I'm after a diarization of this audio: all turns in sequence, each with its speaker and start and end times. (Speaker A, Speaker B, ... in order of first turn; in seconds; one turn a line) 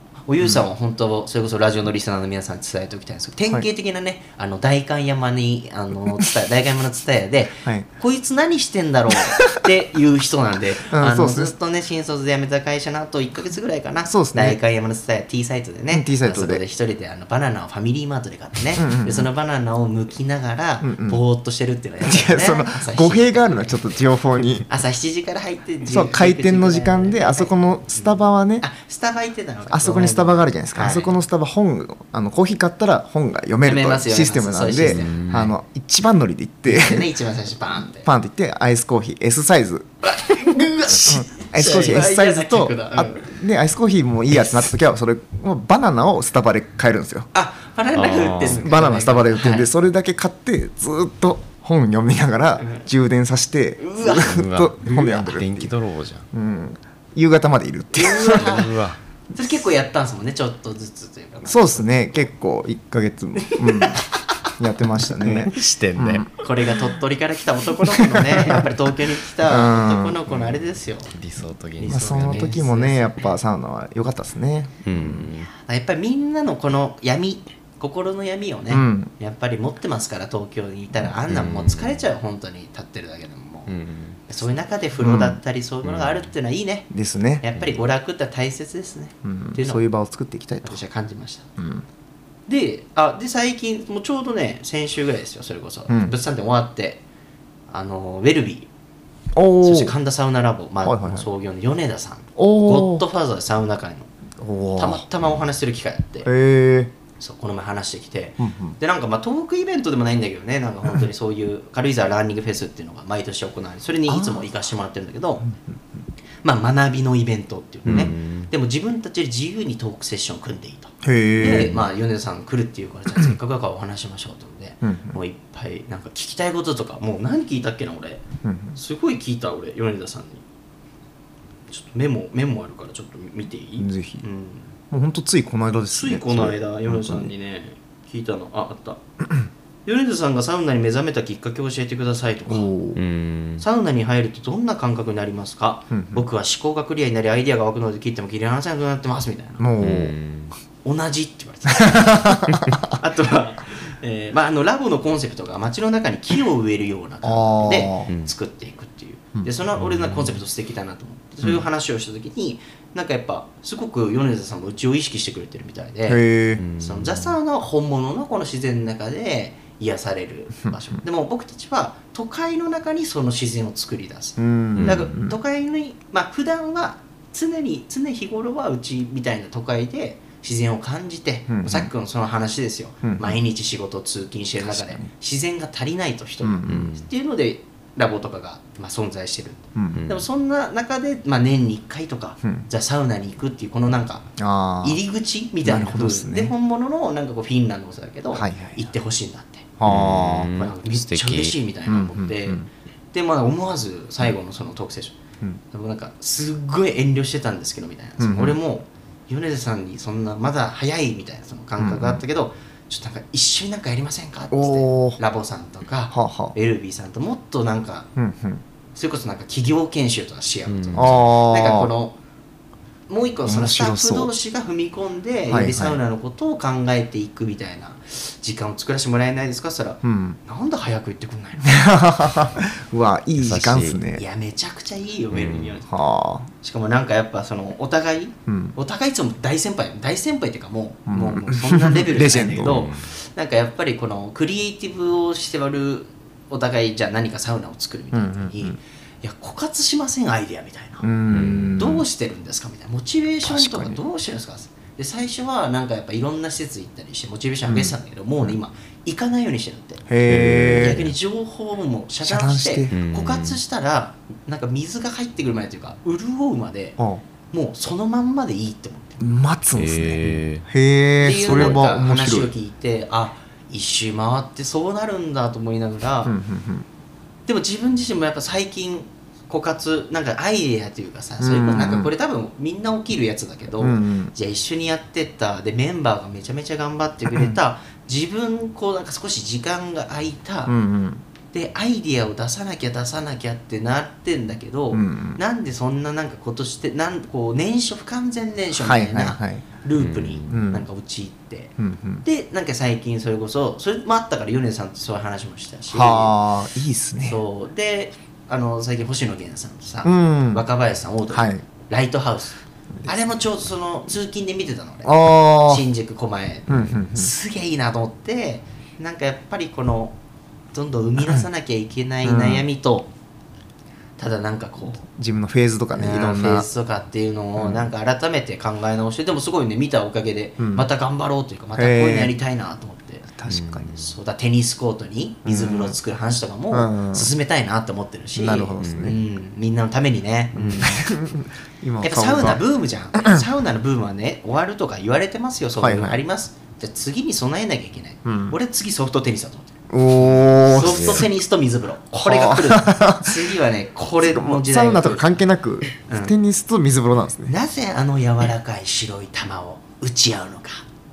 Speaker A: 0.3-24.0
Speaker B: 10.9-11.5
Speaker B: 14.1-14.6
Speaker B: 15.9-16.6
Speaker B: 18.8-19.3
Speaker B: 20.8-21.2
Speaker B: 22.0-24.7
Speaker A: 24.7-31.2
Speaker B: 25.9-28.6
Speaker B: 29.7-37.1
Speaker A: 33.6-35.2
Speaker C: 34.9-35.5
Speaker A: 36.6-38.1
Speaker B: 37.9-39.9
Speaker A: 40.0-43.3
Speaker B: 40.9-47.3
Speaker C: 41.6-42.0
Speaker A: 47.3-49.7
Speaker C: 47.9-48.7
Speaker B: 48.5-55.7
Speaker A: 52.6-52.9
Speaker A: 53.8-54.4
Speaker C: 54.1-56.2
Speaker B: 56.3-58.6
Speaker A: 57.9-58.8
Speaker C: 58.3-59.0
Speaker A: 59.3-62.3
Speaker B: 61.5-66.3
Speaker A: 63.4-64.3
Speaker C: 65.2-66.4
Speaker A: 66.4-71.1
Speaker B: 67.9-68.7
Speaker B: 69.4-70.2
Speaker C: 70.3-72.5
Speaker A: 71.8-73.3
Speaker B: 71.9-75.3
Speaker C: 74.8-75.5
Speaker A: 75.5-83.7
Speaker B: 78.7-79.1
Speaker C: 81.3-82.0
Speaker C: 83.7-84.2
Speaker A: 84.3-89.8
Speaker B: 85.0-85.4
Speaker C: 85.8-86.3
Speaker B: 86.9-87.4
Speaker C: 87.5-87.8
Speaker B: 89.2-90.8
Speaker A: 90.6-91.5
Speaker B: 91.6-91.8
Speaker A: 92.5-97.0
Speaker B: 95.9-96.1
Speaker A: 97.7-98.7
Speaker B: 99.3-100.0
Speaker A: 99.6-104.1
Speaker B: 100.8-101.2
Speaker B: 102.3-103.0
Speaker B: 104.4-105.0
Speaker A: 104.8-106.3
Speaker B: 106.2-106.9
Speaker A: 107.2-115.5
Speaker B: 108.4-108.8
Speaker B: 114.1-114.4
Speaker B: 115.4-116.0
Speaker A: 116.4-128.2
Speaker C: 117.8-118.5
Speaker B: 121.0-121.8
Speaker C: 121.5-121.8
Speaker B: 124.8-125.2
Speaker B: 128.4-128.8
Speaker A: 128.7-130.4
Speaker A: 131.7-134.7
Speaker B: 133.8-134.2
Speaker B: 134.9-137.3
Speaker A: 135.9-139.0
Speaker A: 139.8-142.7
Speaker B: 142.5-143.0
Speaker C: 142.9-143.6
Speaker A: 143.6-149.7
Speaker B: 145.9-146.2
Speaker B: 149.6-150.1
Speaker C: 149.8-150.5
Speaker A: 150.8-166.2
Speaker B: 151.8-152.9
Speaker B: 157.2-158.1
Speaker C: 158.1-158.3
Speaker C: 159.8-160.4
Speaker B: 166.1-166.6
Speaker C: 166.6-167.3
Speaker A: 166.8-194.3
Speaker B: 174.4-175.3
Speaker C: 174.8-175.1
Speaker B: 181.5-181.9
Speaker B: 183.0-183.4
Speaker B: 184.6-185.1
Speaker B: 186.4-186.9
Speaker C: 186.7-187.0
Speaker B: 189.8-190.0
Speaker C: 189.9-190.2
Speaker B: 194.4-195.0
Speaker A: 194.8-199.7
Speaker B: 195.6-196.5
Speaker B: 198.3-198.8
Speaker B: 199.8-200.5
Speaker C: 199.8-201.5
Speaker A: 200.5-205.2
Speaker B: 201.9-202.7
Speaker A: 205.7-218.1
Speaker B: 208.2-208.6
Speaker B: 211.8-212.2
Speaker B: 214.5-215.2
Speaker B: 216.1-216.5
Speaker B: 218.2-218.6
Speaker A: 218.9-222.2
Speaker C: 220.7-221.2
Speaker B: 220.9-221.9
Speaker A: 223.1-231.9
Speaker B: 223.4-224.3
Speaker B: 225.5-226.0
Speaker B: 230.0-230.4
Speaker B: 231.6-234.2
Speaker C: 233.4-234.0
Speaker A: 234.1-235.9
Speaker C: 235.3-235.8
Speaker B: 235.9-236.5
Speaker A: 236.6-260.1
Speaker B: 238.5-238.7
Speaker B: 241.1-242.9
Speaker C: 242.5-243.1
Speaker B: 248.1-248.8
Speaker B: 251.0-252.0
Speaker C: 251.3-251.8
Speaker B: 253.4-254.0
Speaker B: 257.7-258.6
Speaker B: 260.1-261.0
Speaker C: 260.2-261.1
Speaker A: 260.7-267.0
Speaker B: 262.2-262.9
Speaker C: 262.9-263.6
Speaker B: 267.0-267.2
Speaker A: 267.5-269.3
Speaker B: 269.2-272.5
Speaker C: 269.7-270.6
Speaker A: 271.2-276.3
Speaker C: 271.4-271.8
Speaker B: 276.2-276.9
Speaker A: 277.5-290.7
Speaker B: 281.4-282.1
Speaker B: 283.8-284.3
Speaker B: 287.3-287.6
Speaker B: 290.7-291.2
Speaker A: 291.5-306.3
Speaker B: 294.9-295.4
Speaker B: 298.8-299.6
Speaker C: 300.0-300.6
Speaker B: 300.5-300.9
Speaker B: 301.8-302.2
Speaker B: 305.9-307.4
Speaker A: 307.2-320.1
Speaker B: 310.0-310.6
Speaker B: 311.3-311.6
Speaker B: 315.0-315.8
Speaker B: 316.7-317.3
Speaker A: 320.7-323.1
Speaker B: 322.2-322.6
Speaker A: 324.2-325.0
Speaker B: 325.0-326.7
Speaker A: 325.9-333.3
Speaker B: 327.6-327.9
Speaker B: 330.6-330.9
Speaker B: 331.8-332.4
Speaker B: 333.3-334.0
Speaker C: 333.5-334.1
Speaker A: 333.9-341.2
Speaker B: 335.4-335.9
Speaker B: 336.7-337.3
Speaker B: 338.3-339.2
Speaker C: 338.8-339.2
Speaker B: 340.6-342.6
Speaker A: 342.0-355.4
Speaker B: 343.1-343.4
Speaker B: 345.8-346.2
Speaker B: 348.2-348.6
Speaker B: 349.9-351.3
Speaker C: 350.7-351.3
Speaker B: 352.1-353.5
Speaker B: 354.2-357.5
Speaker A: 356.1-356.3
Speaker A: 357.5-360.9